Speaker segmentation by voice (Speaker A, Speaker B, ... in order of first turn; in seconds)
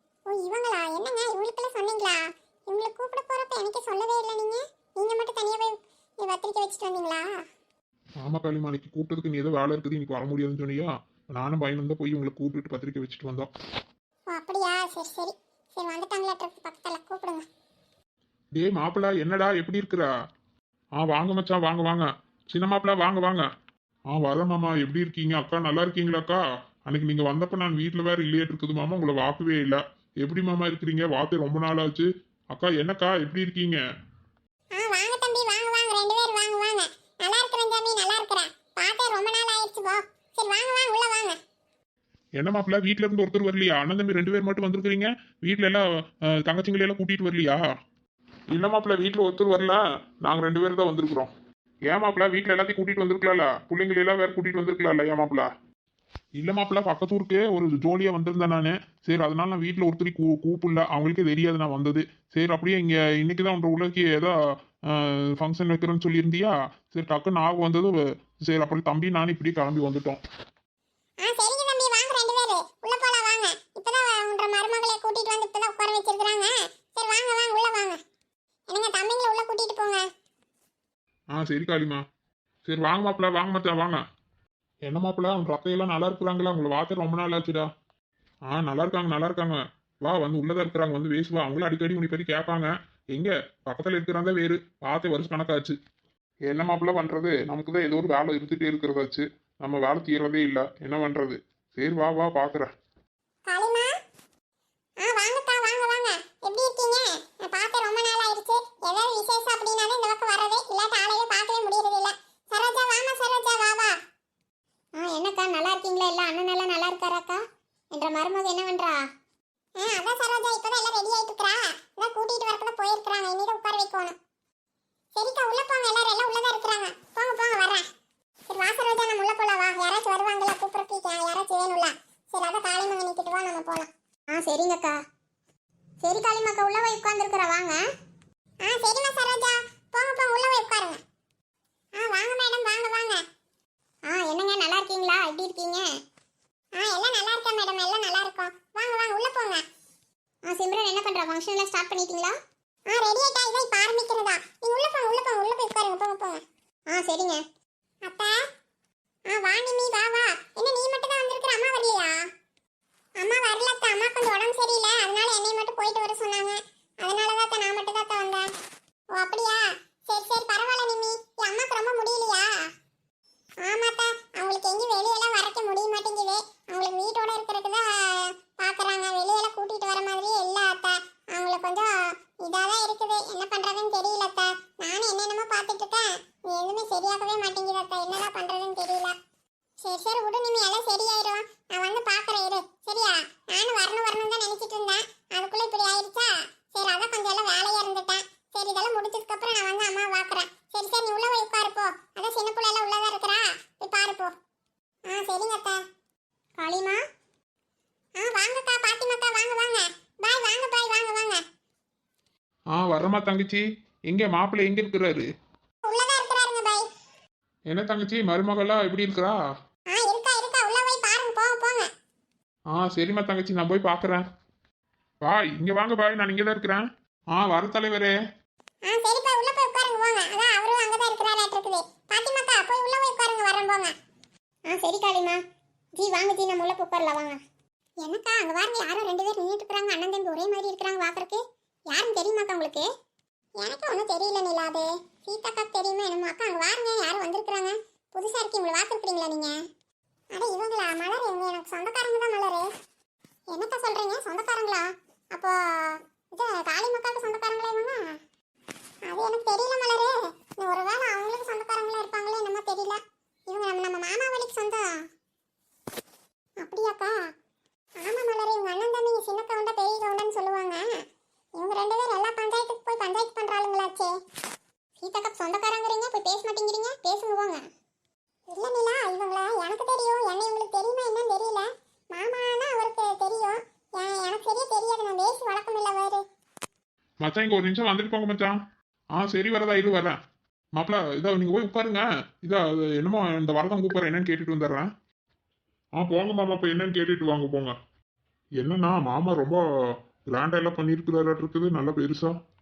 Speaker A: 0.3-7.3, 14.3-17.5, 34.7-41.4, 71.2-78.0, 78.7-80.1, 103.5-103.9, 105.0-114.0, 115.0-119.0, 119.8-124.2, 125.2-127.9, 128.5-135.0, 136.0-137.8, 138.6-141.0, 141.9-143.2, 144.1-145.9, 146.8-149.6, 150.4-152.4, 152.9-157.4, 158.0-158.4, 159.3-162.2, 163.2-168.5, 169.1-172.5, 173.6-189.2, 189.8-204.3, 205.1-205.8, 206.6-207.0, 208.2-211.4, 215.8-216.9, 219.9-221.9, 228.8-233.9, 234.7-235.4, 235.9-237.4, 238.0-242.9, 243.6-249.6, 250.3-252.7, 253.5-258.2, 259.0-265.0, 266.6-267.2, 268.0-270.9, 271.6-274.1, 275.0-277.6, 278.5-286.2
Speaker B: 8.2-13.5, 18.6-20.1, 21.0-23.4, 24.1-33.8, 42.4-47.6, 48.5-51.3, 51.9-55.5, 56.4-64.3, 64.9-70.2, 81.3-82.0, 82.7-84.0, 84.9-87.7, 88.5-95.8, 96.5-102.7, 212.7-215.3, 217.7-219.4, 222.7-224.2, 225.2-228.1, 287.2-288.6, 289.1-290.2, 290.8-294.9, 296.0-297.8, 298.6-299.6, 300.3-302.4